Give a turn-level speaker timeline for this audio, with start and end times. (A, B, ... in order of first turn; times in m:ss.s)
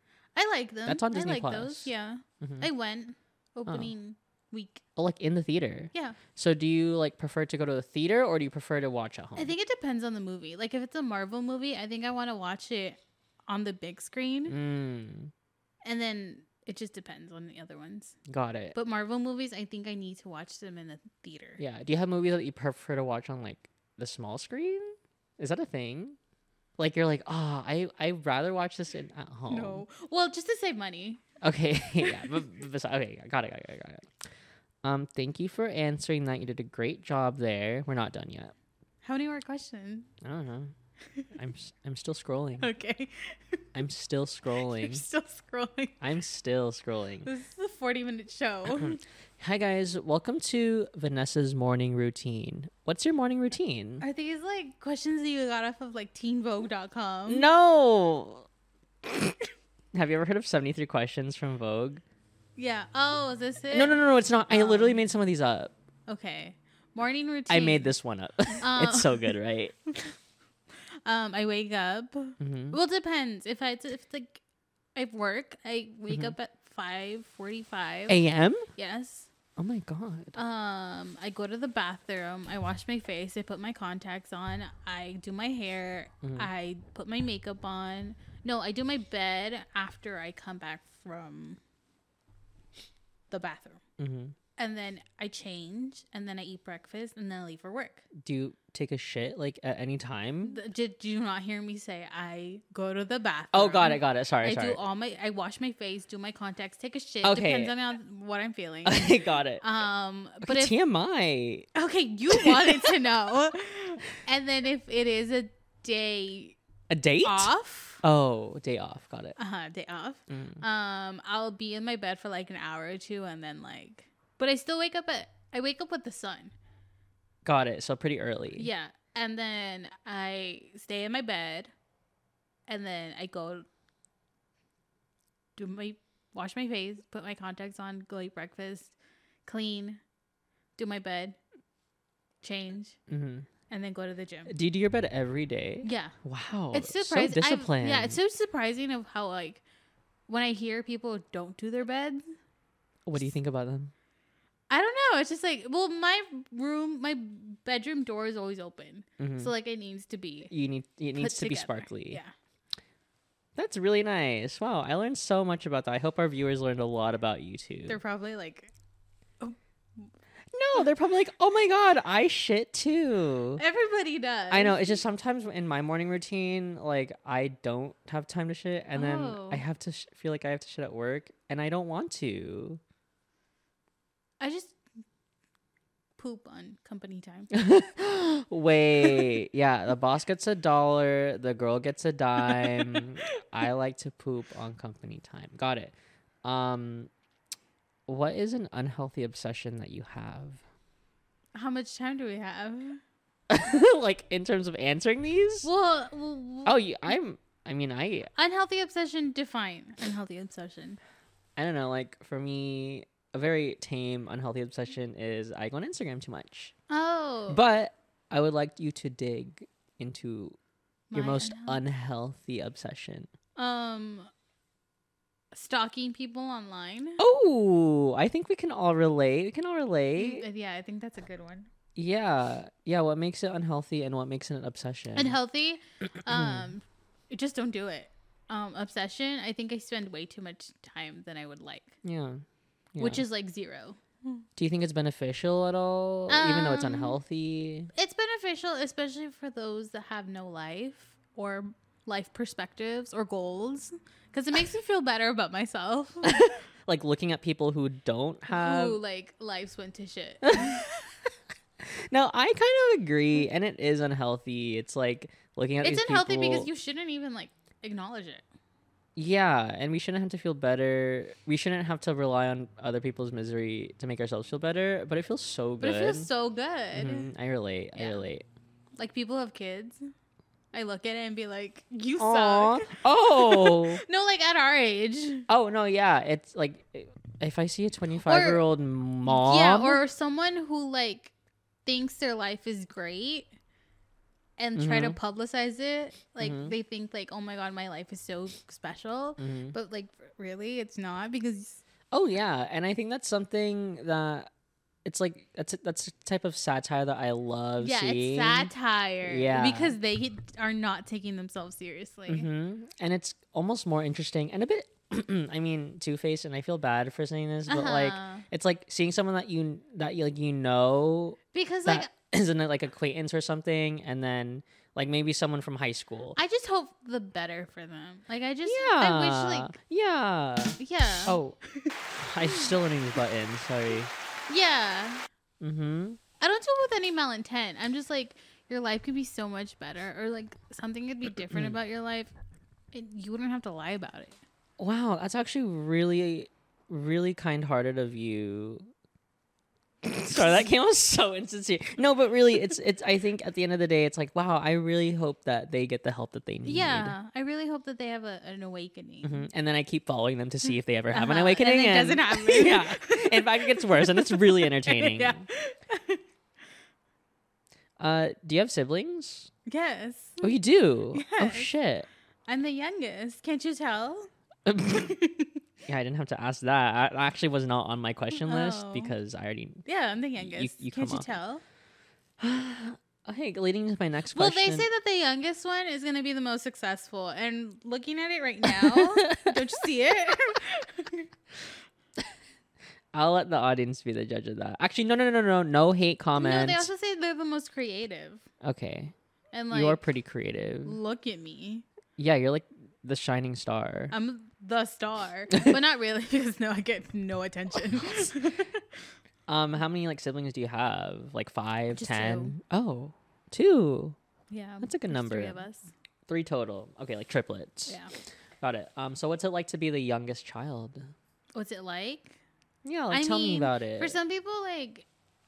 0:00.3-0:04.8 A
0:00.8-0:02.7 B
0:05.0-0:09.5 B
0:05.9-0:06.2 A
0:09.4-0:14.6 A
0:14.5-0:15.3 B
0:15.8-0:18.2 A
0:18.3-0:18.8 B
0:18.7-0:21.6 A
0:21.6-0:26.2 B
0:26.8-0:29.8 B
0:29.5-0:31.2 A
0:31.4-0:34.1 B
0:32.0-0:32.4 A
0:34.8-0:38.5 B
0:39.0-0:40.1 A
0:40.2-0:40.7 B
0:41.3-0:42.7 B
0:42.6-0:43.4 A
0:43.7-0:45.0 B
0:44.7-0:46.0 A
0:46.0-0:47.3 B
0:47.2-0:49.0 A
0:48.7-0:54.0 B
0:54.0-0:57.4 A
0:57.3-0:58.5 B
0:59.0-0:59.4 B
0:59.9-1:02.0 B
1:02.6-1:05.0 A
1:03.7-1:05.7 B
1:06.1-1:07.9 A
1:07.5-1:09.7 B
1:08.5-1:09.4 A
1:11.0-1:14.4 A
1:12.4-1:12.8 B
1:15.0-1:18.2 A
1:16.1-1:16.3 B
1:18.1-1:18.7 B
1:18.7-1:19.3 A
1:19.6-1:20.4 B
1:20.3-1:31.6 A
1:26.2-1:26.5 B
1:33.3-1:33.8 A
1:34.0-1:34.3 B
1:34.6-1:38.1 A
1:38.1-1:40.6 B
1:40.4-1:50.7 A
1:43.5-1:44.8 B
1:47.2-1:47.7 B
1:48.8-1:49.6 B
1:50.4-1:51.7 B
1:51.7-1:56.6 A
1:52.3-1:53.1 B
1:56.9-1:59.4 B
1:57.2-1:58.0 A
1:59.4-2:06.5 A
2:00.3-2:00.6 B
2:07.4-2:08.7 B
2:08.6-2:11.7 A
2:12.7-2:13.6 A
2:15.6-2:18.9 A
2:19.4-2:20.0 A
2:20.8-2:21.4 A
2:22.4-2:23.0 A
2:23.1-2:23.5 B
2:23.7-2:24.5 A
2:24.5-2:28.2 B
2:25.8-2:26.2 A
2:26.7-2:29.6 A
2:30.3-2:32.2 A
2:33.0-2:33.9 B
2:34.7-2:40.5 A
2:39.2-2:39.5 B
2:40.5-2:42.2 B
2:41.2-2:42.3 A
2:43.6-2:48.0 B
2:47.9-2:48.7 A
2:49.4-2:50.1 A
2:50.5-2:53.6 B
2:53.6-2:55.0 A
2:54.5-3:02.8 B
2:58.9-2:59.6 A
3:04.4-3:04.8 A
3:06.2-3:07.5 A
3:07.5-3:17.1 B
3:12.4-3:13.0 A
3:18.1-3:20.6 B
3:21.5-3:23.0 A
3:23.5-3:25.7 B
3:25.6-3:27.2 A
3:26.6-3:28.3 B
3:28.4-3:31.0 A
3:31.6-3:36.7 B
3:36.9-3:37.6 A
3:37.5-3:40.6 B
3:41.1-3:41.8 A
3:41.1-3:43.3 B
3:43.6-3:44.3 A
3:45.5-3:47.2 A
3:47.2-3:50.4 B
3:50.2-3:51.7 A
3:51.9-3:55.4 B
3:55.1-4:02.0 A
3:56.2-3:56.7 B
4:02.0-4:02.4 B
4:02.9-4:03.2 B
4:03.0-4:04.4 A
4:04.6-4:07.9 B
4:06.3-4:07.2 A
4:07.9-4:16.5 A
4:16.2-4:19.0 B
4:18.5-4:20.9 A
4:20.4-4:20.8 B
4:21.8-4:26.7 B
4:25.8-4:28.4 A
4:29.2-4:36.3 B
4:35.8-4:37.3 A
4:36.9-4:38.4 B
4:38.0-4:38.2 A
4:39.0-4:40.0 A
4:40.7-4:45.5 A
4:42.2-4:44.0 B
4:45.5-4:50.0 B
4:48.2-4:48.6 A
4:49.2-4:51.3 A
4:51.8-4:53.5 A
4:54.6-5:01.8 A
4:54.8-4:55.2 B
4:56.4-4:56.7 B
4:59.4-4:59.7 B
5:02.1-5:04.5 B
5:05.0-5:08.7 B
5:07.8-5:12.5 A
5:09.2-5:10.0 B
5:12.3-5:26.4 B
5:17.7-5:18.4 A
5:21.5-5:22.1 A
5:26.4-5:29.7 A
5:28.6-5:31.6 B
5:30.8-5:32.7 A
5:32.2-5:34.1 B
5:34.5-5:35.2 A
5:35.6-5:36.2 B
5:36.4-5:42.3 A
5:41.5-5:41.8 B
5:42.9-5:44.4 A
5:44.8-5:48.9 B
5:50.0-5:57.1 B
5:56.6-5:59.4 A
5:59.2-6:05.4 B
6:01.1-6:06.2 A
6:08.0-6:09.5 B
6:09.7-6:10.5 A
6:10.4-6:12.1 B
6:11.1-6:11.7 A
6:12.5-6:14.3 A
6:14.6-6:15.1 B
6:14.8-6:15.6 A
6:15.8-6:19.8 B
6:18.3-6:19.1 A
6:19.8-6:21.6 A
6:20.4-6:21.3 B
6:22.4-6:24.9 B
6:24.3-6:31.3 A
6:28.6-6:29.6 B
6:33.1-6:36.9 B
6:36.4-6:38.4 A
6:38.6-6:39.1 B
6:39.5-6:40.0 A
6:39.7-6:41.0 B
6:40.8-6:41.8 A
6:42.2-6:44.1 B
6:44.1-6:48.8 A
6:48.0-6:48.3 B
6:49.5-6:54.2 B
6:51.9-6:52.6 A
6:54.5-6:55.9 A
6:54.8-6:55.6 B
6:56.3-6:58.0 B
6:57.9-6:58.1 A
6:58.6-7:01.1 B
7:01.5-7:02.4 A
7:02.8-7:04.2 B
7:03.1-7:05.1 A